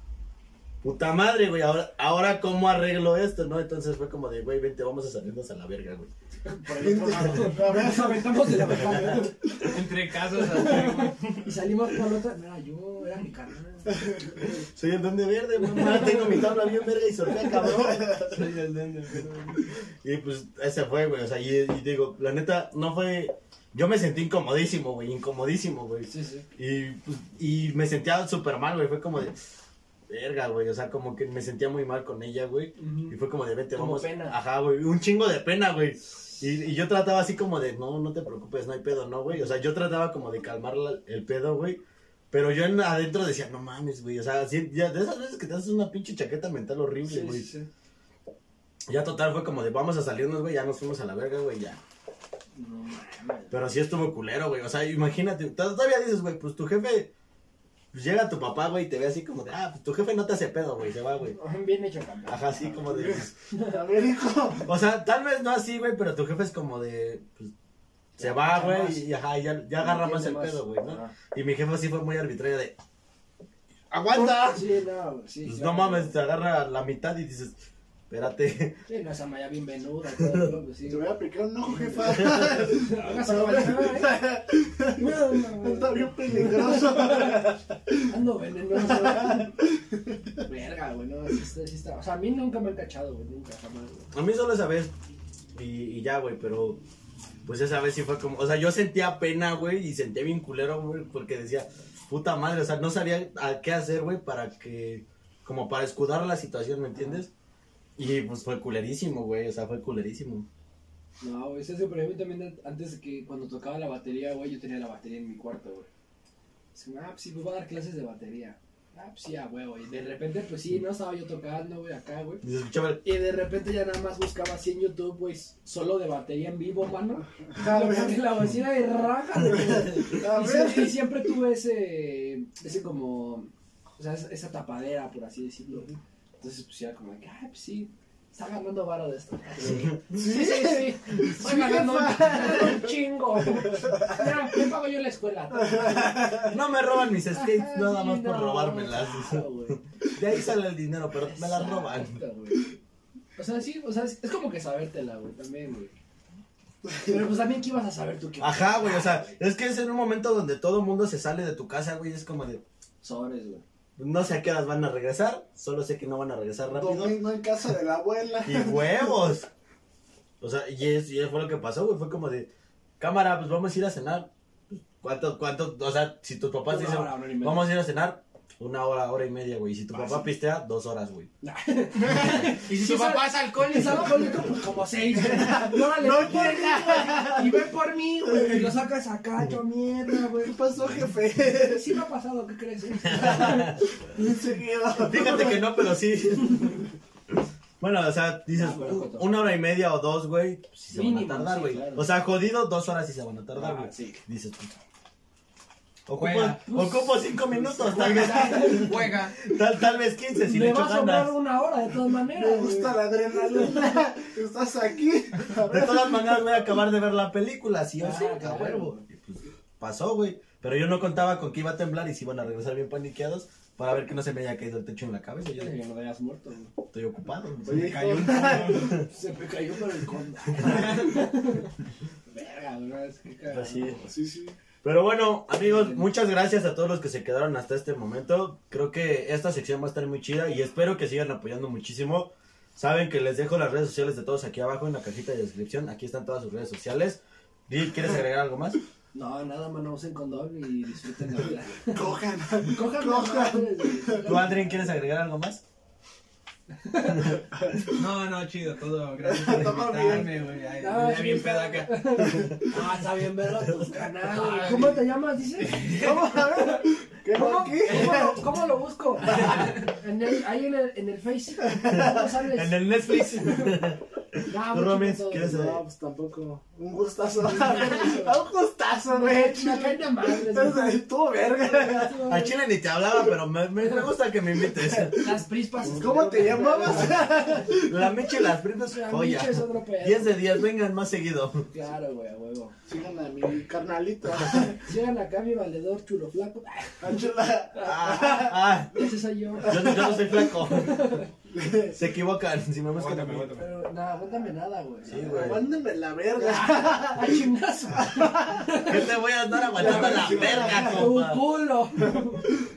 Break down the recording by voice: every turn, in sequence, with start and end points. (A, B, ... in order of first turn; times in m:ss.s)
0:00.8-0:06.1 A
0:06.4-0:09.8 B
0:06.7-0:09.2 C
0:06.8-0:07.6 A
0:09.6-0:11.5 D
0:10.3-0:14.0 B
0:13.9-0:14.4 C
0:14.5-0:18.4 A
0:15.6-0:17.9 B
0:17.6-0:18.4 C
0:18.2-0:19.6 D
0:19.9-0:29.4 A
0:26.1-0:26.5 B
0:30.1-0:47.5 A
0:32.8-0:33.2 B
0:33.7-0:34.4 B
0:47.0-0:47.7 B
0:48.9-0:51.8 A
0:52.6-0:53.6 B
0:53.5-0:57.1 A
0:57.9-1:01.4 A
1:01.3-1:03.8 B
1:02.3-1:03.3 A
1:02.9-1:04.7 C
1:04.7-1:07.5 A
1:08.2-1:09.1 B
1:08.2-1:12.8 A
1:09.8-1:11.1 B
1:13.9-1:14.6 A
1:14.4-1:16.2 B
1:15.5-1:17.6 A
1:18.1-1:18.8 A
1:18.9-1:24.2 B
1:20.2-1:20.5 A
1:20.8-1:27.9 C
1:25.0-1:27.5 B
1:28.1-1:29.6 B
1:28.9-1:29.8 C
1:30.5-1:34.1 B
1:34.1-1:34.9 A
1:35.6-1:36.8 A
1:37.5-1:47.3 A
1:46.9-1:47.2 B
1:48.0-1:50.5 A
1:51.2-1:55.9 B
1:56.8-2:02.4 B
2:02.4-2:03.0 A
2:03.0-2:26.7 B
2:07.5-2:08.3 C
2:09.4-2:11.1 C
2:19.7-2:20.0 A
2:20.1-2:24.5 C
2:25.7-2:26.5 C
2:26.5-2:32.2 A
2:27.2-2:29.8 B
2:31.2-2:32.7 B
2:33.4-2:35.9 B
2:36.9-2:37.2 C
2:37.0-2:39.4 B
2:38.4-2:42.6 A
2:43.0-2:43.6 B
2:44.0-2:47.2 A
2:46.7-2:49.2 C
2:48.4-2:49.5 A
2:50.4-2:52.5 A
2:53.0-3:01.3 A
2:56.7-2:57.7 B
2:59.9-3:00.3 B
3:01.4-3:10.6 B
3:02.2-3:04.5 D
3:05.2-3:07.7 C
3:08.3-3:08.7 C
3:10.4-3:12.0 C
3:11.5-3:13.8 B
3:13.0-3:13.8 A
3:13.1-3:15.7 C
3:15.0-3:16.9 A
3:17.8-3:24.7 A
3:18.5-3:19.3 B
3:20.9-3:22.1 B
3:23.5-3:24.2 B
3:26.1-3:31.3 A
3:26.2-3:26.6 D
3:26.6-3:29.1 B
3:27.6-3:28.3 C
3:28.2-3:29.4 D
3:30.4-3:34.1 B
3:32.3-3:36.5 C
3:35.6-3:45.7 A
3:38.0-3:39.0 B
3:45.5-3:46.7 B
3:46.9-3:48.0 A
3:47.6-3:48.9 C
3:47.7-3:48.9 D
3:48.3-3:51.8 B
3:48.7-3:49.1 A
3:50.6-3:51.0 A
3:52.3-3:54.1 B
3:53.5-3:54.0 A
3:54.0-3:54.6 C
3:54.8-4:08.8 A
3:55.6-3:56.1 B
4:09.1-4:14.9 B
4:11.9-4:14.4 C
4:14.2-4:15.6 A
4:16.8-4:17.4 B
4:17.5-4:17.9 C
4:17.9-4:22.2 D
4:19.3-4:20.4 C
4:20.8-4:33.8 B
4:23.7-4:23.9 A
4:24.2-4:26.5 D
4:25.9-4:28.4 C
4:29.4-4:29.7 C
4:31.8-4:35.8 A
4:34.5-4:35.6 B
4:35.4-4:42.3 C
4:37.4-4:38.4 B
4:39.1-4:41.0 B
4:41.6-4:42.6 B
4:42.3-4:45.3 A
4:44.7-4:48.4 C
4:45.0-4:47.8 B
4:46.3-4:51.7 A
4:48.9-4:50.5 B
4:51.7-4:52.8 B
4:52.9-4:54.8 C
4:54.7-5:01.3 B
4:57.0-4:58.1 C
4:57.8-4:59.0 A
4:59.6-5:01.2 A
4:59.6-5:00.2 C
5:01.5-5:02.0 C
5:01.9-5:03.6 A
5:02.9-5:03.7 D
5:03.5-5:05.6 B
5:05.1-5:05.7 A
5:05.2-5:08.8 C
5:06.4-5:12.5 B
5:08.9-5:11.6 A
5:09.7-5:11.2 C